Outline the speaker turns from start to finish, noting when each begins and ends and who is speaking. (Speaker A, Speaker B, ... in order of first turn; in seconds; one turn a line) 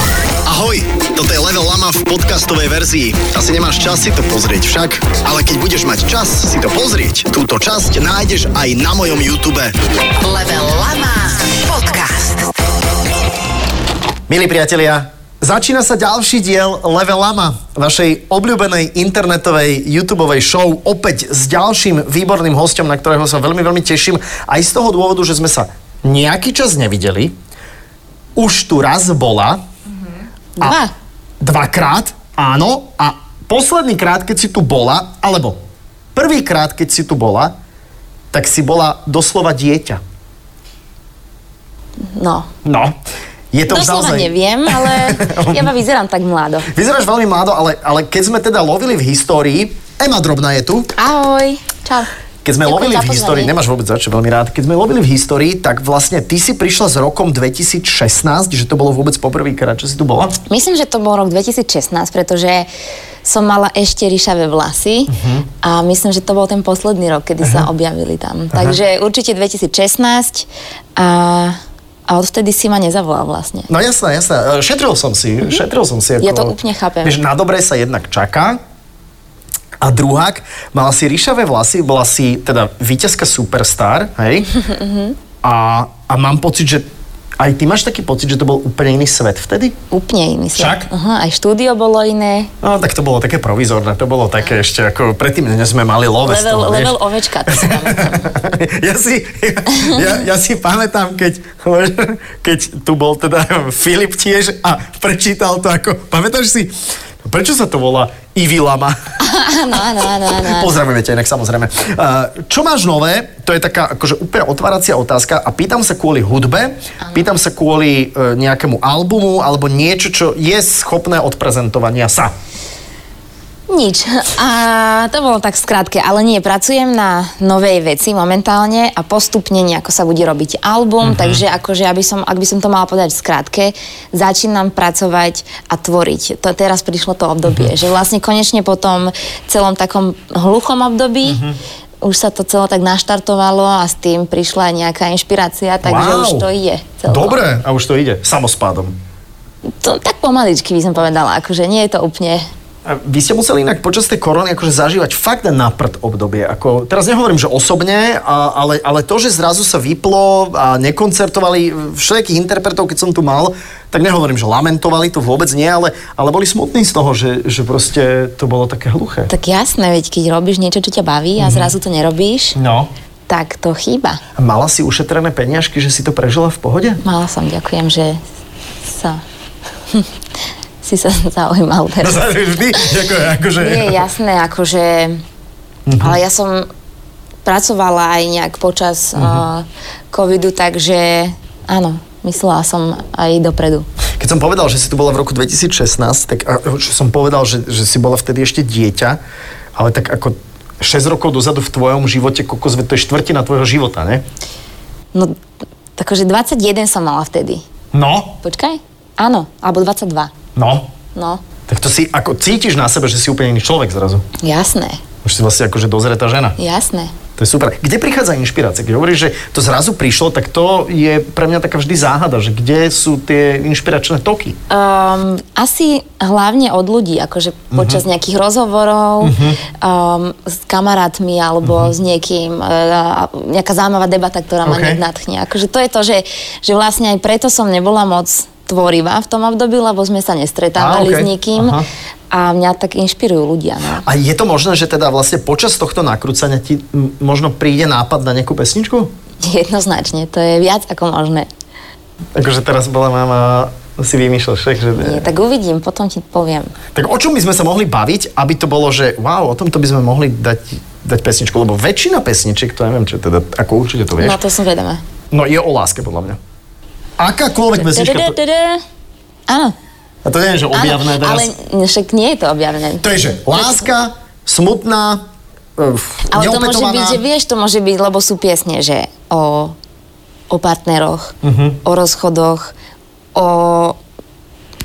Speaker A: 0.4-9.7
Speaker B: 10.2-12.6
Speaker A: 14.3-27.3
Speaker A: 28.4-29.6
Speaker C: 30.6-30.9
Speaker A: 31.4-35.6
Speaker A: 36.1-37.5
Speaker A: 38.3-40.0
Speaker C: 42.0-42.5
Speaker A: 42.6-43.0
Speaker A: 43.5-45.7
Speaker C: 43.7-46.7
Speaker A: 46.7-50.9
Speaker C: 51.0-52.1
Speaker A: 52.4-60.4
Speaker C: 52.7-53.5
Speaker C: 60.5-62.7
Speaker C: 63.2-71.5
Speaker A: 65.1-65.5
Speaker A: 68.5-68.8
Speaker C: 72.1-73.7
Speaker A: 73.7-78.6
Speaker C: 76.2-77.2
Speaker A: 79.8-84.5
Speaker C: 84.6-85.2
Speaker A: 85.4-86.8
Speaker A: 87.4-89.8
Speaker C: 89.9-92.5
Speaker A: 90.5-90.9
Speaker A: 92.6-109.0
Speaker C: 96.2-98.3
Speaker C: 109.2-110.8
Speaker A: 110.4-122.3
Speaker C: 123.7-141.4
Speaker A: 131.0-131.4
Speaker A: 141.2-141.6
Speaker C: 142.0-147.4
Speaker A: 145.8-146.5
Speaker A: 147.1-148.9
Speaker C: 149.8-152.4
Speaker A: 152.8-169.3
Speaker C: 169.3-172.6
Speaker A: 171.4-171.7
Speaker A: 172.6-172.9
Speaker C: 173.3-174.2
Speaker A: 174.3-177.0
Speaker C: 177.0-178.2
Speaker C: 178.8-179.2
Speaker C: 180.8-182.2
Speaker A: 182.0-184.1
Speaker C: 183.6-185.2
Speaker A: 185.8-186.2
Speaker C: 186.0-186.7
Speaker C: 187.4-193.9
Speaker A: 189.2-189.4
Speaker A: 194.2-199.2
Speaker A: 199.8-204.2
Speaker C: 205.9-207.6
Speaker A: 207.9-208.4
Speaker C: 208.4-210.3
Speaker A: 210.6-210.9
Speaker C: 211.2-211.4
Speaker A: 211.7-214.2
Speaker C: 214.4-215.0
Speaker A: 215.2-216.6
Speaker C: 216.6-217.1
Speaker A: 217.4-224.6
Speaker C: 224.7-241.8
Speaker A: 227.7-228.0
Speaker A: 229.2-229.6
Speaker A: 231.6-231.9
Speaker A: 234.7-235.0
Speaker A: 240.8-241.8
Speaker C: 242.3-244.0
Speaker A: 244.0-249.1
Speaker C: 249.4-251.5
Speaker A: 252.3-255.3
Speaker C: 255.0-256.8
Speaker A: 256.9-264.4
Speaker C: 264.2-265.0
Speaker A: 265.3-266.4
Speaker A: 267.2-268.4
Speaker C: 267.8-268.8
Speaker C: 269.5-269.7
Speaker A: 270.2-271.5
Speaker C: 270.7-273.9
Speaker A: 273.0-275.2
Speaker A: 275.8-277.2
Speaker C: 276.3-279.8
Speaker C: 280.5-282.7
Speaker A: 281.4-281.8
Speaker C: 283.3-284.0